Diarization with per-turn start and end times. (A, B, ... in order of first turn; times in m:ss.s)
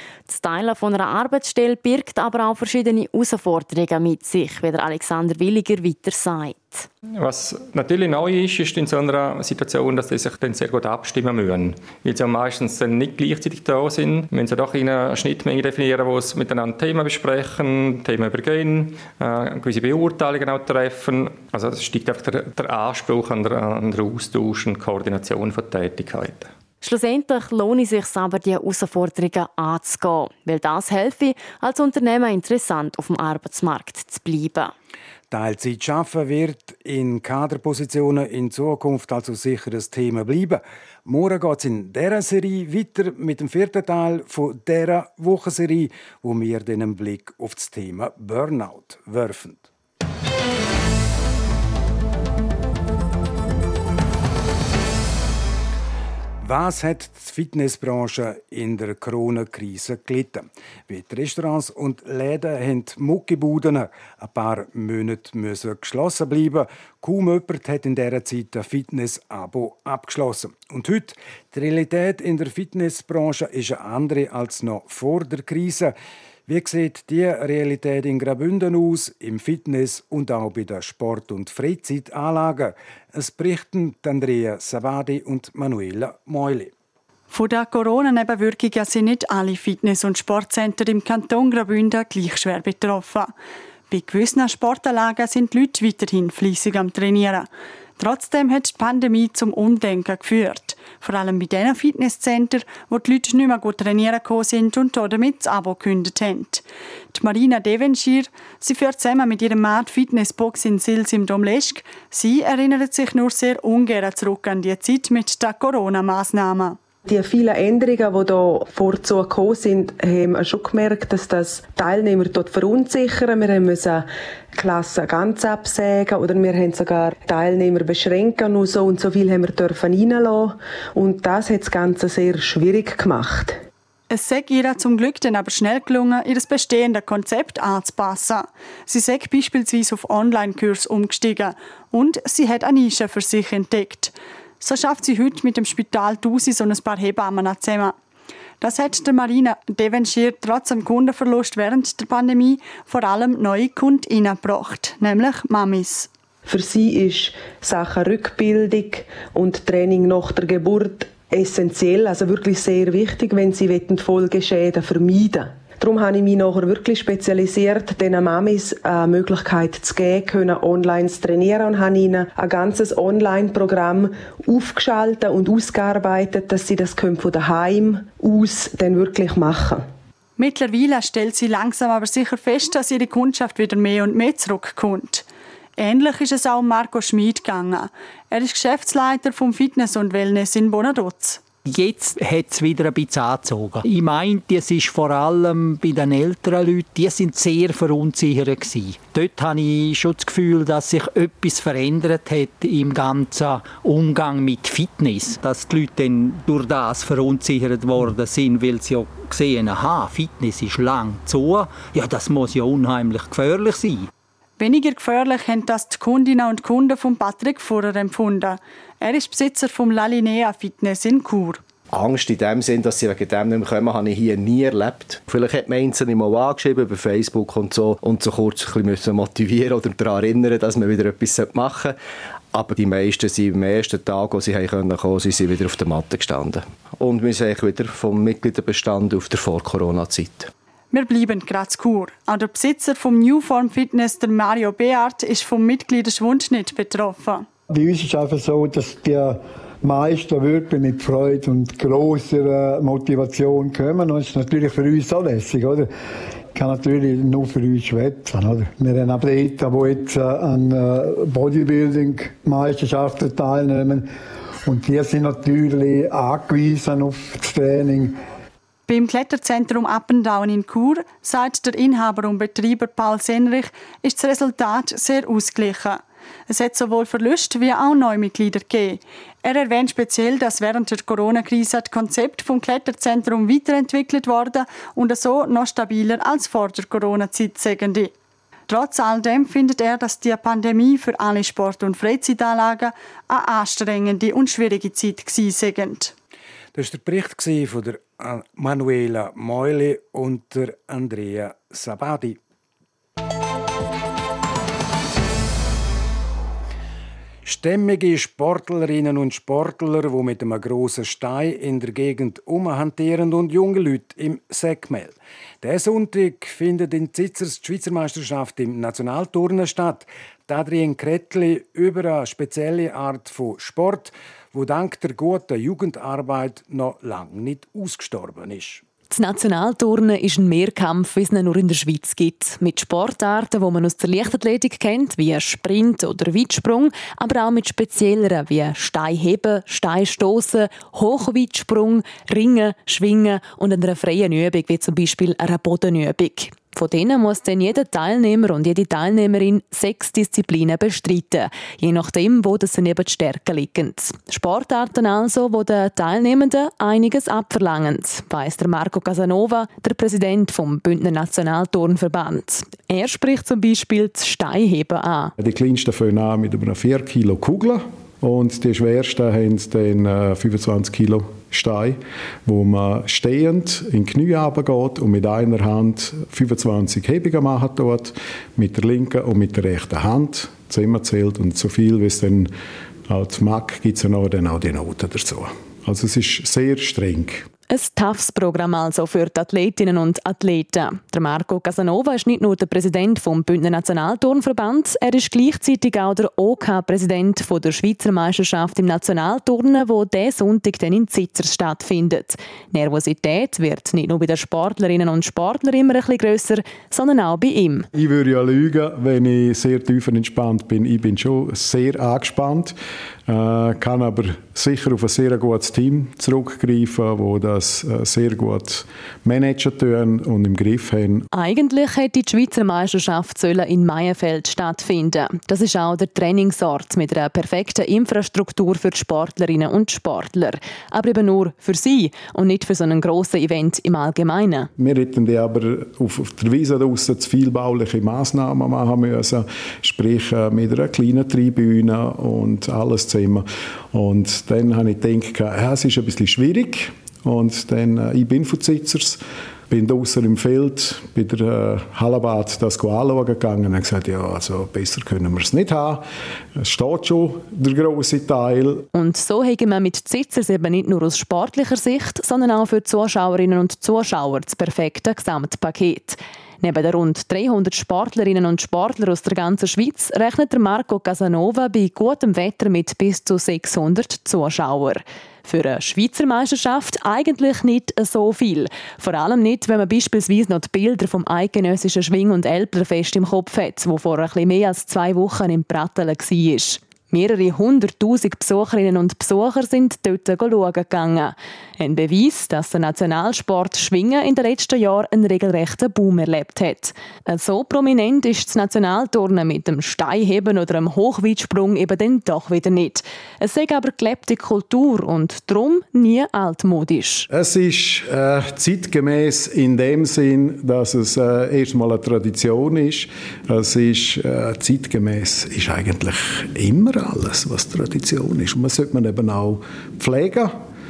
0:00.3-0:06.9 A
0:07.2-0:26.5 B
0:26.8-0:34.7 A
0:35.3-0:49.7 C
0:56.4-1:15.9 C
1:16.5-1:26.7 C
1:27.3-1:33.3 D
1:33.9-1:56.8 D
1:57.0-2:13.6 E
2:14.1-2:28.0 D
2:28.6-2:36.1 D
2:36.4-2:59.8 E
3:00.4-3:05.2 D
3:05.8-3:11.4 D
3:11.6-3:34.1 F
3:34.6-3:41.6 D
3:41.9-3:52.0 G
3:52.5-4:00.5 G
4:00.9-4:07.5 D
4:07.7-4:15.9 H
4:16.5-4:24.1 H
4:24.6-4:28.2 H
4:28.9-4:48.1 D
4:48.7-4:56.1 D
4:56.8-5:02.4 C
5:07.4-5:28.8 C
5:29.1-6:05.3 I
6:05.4-6:22.5 J
6:23.1-6:27.5 J
6:27.7-6:47.9 I
6:47.9-7:01.3 J
7:01.3-7:14.7 I
7:14.8-7:38.9 J
7:38.9-8:27.3 I
8:27.3-8:40.6 J